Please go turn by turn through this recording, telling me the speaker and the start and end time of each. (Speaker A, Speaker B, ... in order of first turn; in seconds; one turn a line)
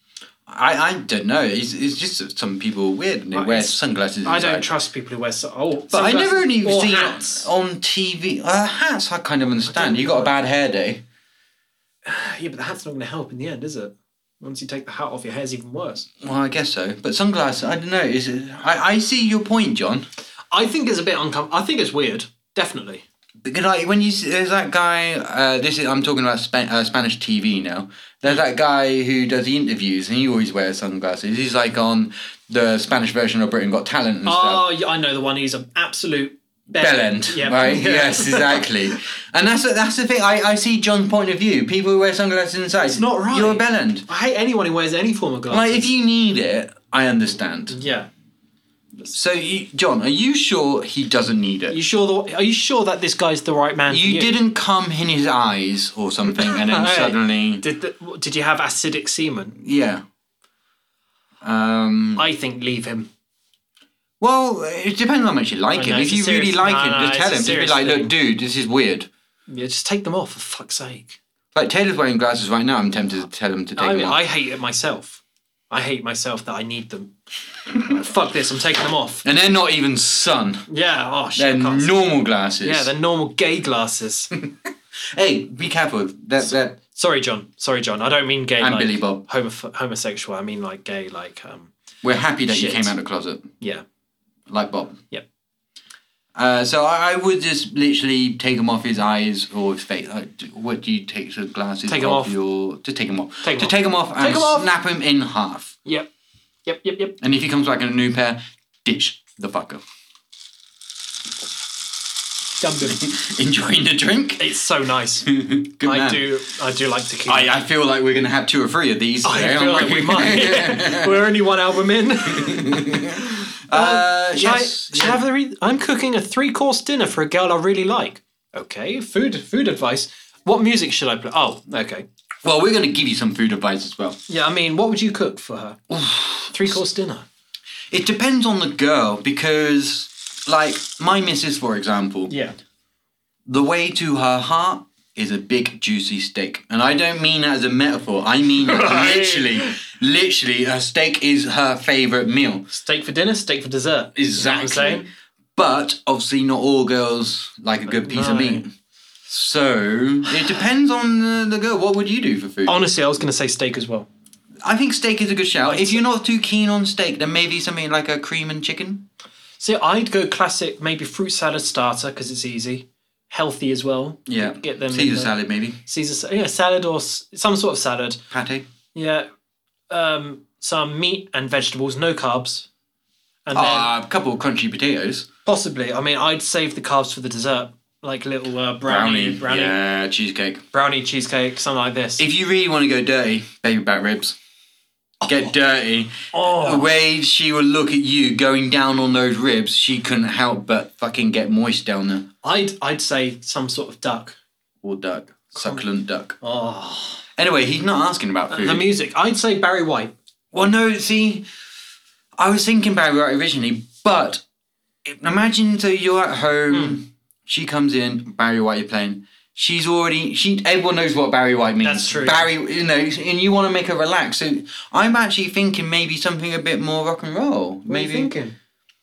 Speaker A: 0.5-4.7
Speaker B: 3.3-7.5
Speaker A: 5.9-11.0
Speaker B: 9.6-10.3
Speaker B: 12.0-16.1
Speaker A: 16.2-20.1
Speaker B: 20.5-23.0
Speaker A: 23.4-34.6
Speaker B: 34.2-39.0
Speaker A: 36.8-44.0
Speaker B: 42.8-45.9
Speaker A: 45.5-47.8
Speaker B: 47.7-48.1
Speaker A: 49.1-51.8
Speaker B: 51.7-54.4
Speaker A: 53.9-57.6
Speaker B: 56.2-59.6
Speaker A: 59.6-60.0
Speaker A: 61.4-62.2
Speaker B: 62.1-63.1
Speaker A: 64.2-69.1
Speaker B: 65.7-68.1
Speaker B: 69.5-71.2
Speaker A: 71.5-74.2
Speaker B: 73.8-77.1
Speaker B: 77.7-79.2
Speaker A: 79.2-80.6
Speaker B: 80.7-82.0
Speaker A: 81.3-82.9
Speaker B: 82.6-84.3
Speaker A: 84.4-86.8
Speaker B: 86.4-91.7
Speaker A: 88.6-89.2
Speaker A: 92.0-93.5
Speaker B: 92.5-92.9
Speaker A: 94.5-95.0
Speaker A: 96.3-105.7
Speaker B: 101.9-102.3
Speaker B: 103.4-104.7
Speaker B: 106.6-107.2
Speaker A: 107.2-109.8
Speaker B: 112.6-113.0
Speaker A: 112.8-114.5
Speaker B: 114.4-115.3
Speaker A: 115.2-116.3
Speaker B: 115.8-117.6
Speaker A: 117.3-121.3
Speaker B: 119.2-132.1
Speaker A: 122.2-125.2
Speaker A: 132.4-134.2
Speaker B: 134.3-135.8
Speaker A: 135.9-136.8
Speaker B: 136.5-137.2
Speaker A: 137.9-142.3
Speaker B: 142.3-142.5
Speaker A: 143.4-152.7
Speaker B: 148.7-149.8
Speaker B: 152.7-155.1
Speaker A: 154.2-158.7
Speaker B: 158.0-158.7
Speaker A: 159.3-162.8
Speaker B: 162.7-164.1
Speaker A: 164.6-169.1
Speaker B: 165.6-166.0
Speaker B: 169.6-178.2
Speaker A: 174.3-175.8
Speaker A: 178.3-178.7
Speaker B: 178.9-179.3
Speaker B: 179.9-182.7
Speaker B: 183.4-183.9
Speaker A: 183.5-185.3
Speaker B: 185.4-189.8
Speaker A: 188.8-190.6
Speaker B: 190.7-192.2
Speaker A: 192.2-194.4
Speaker A: 195.2-202.3
Speaker B: 196.3-197.0
Speaker B: 202.4-204.4
Speaker A: 204.8-206.3
Speaker B: 205.5-205.8
Speaker B: 206.4-207.2
Speaker A: 207.4-208.9
Speaker B: 208.5-210.1
Speaker A: 210.5-211.4
Speaker A: 212.4-214.4
Speaker A: 215.0-228.3
Speaker B: 216.7-217.0
Speaker B: 221.8-222.5
Speaker B: 227.9-228.5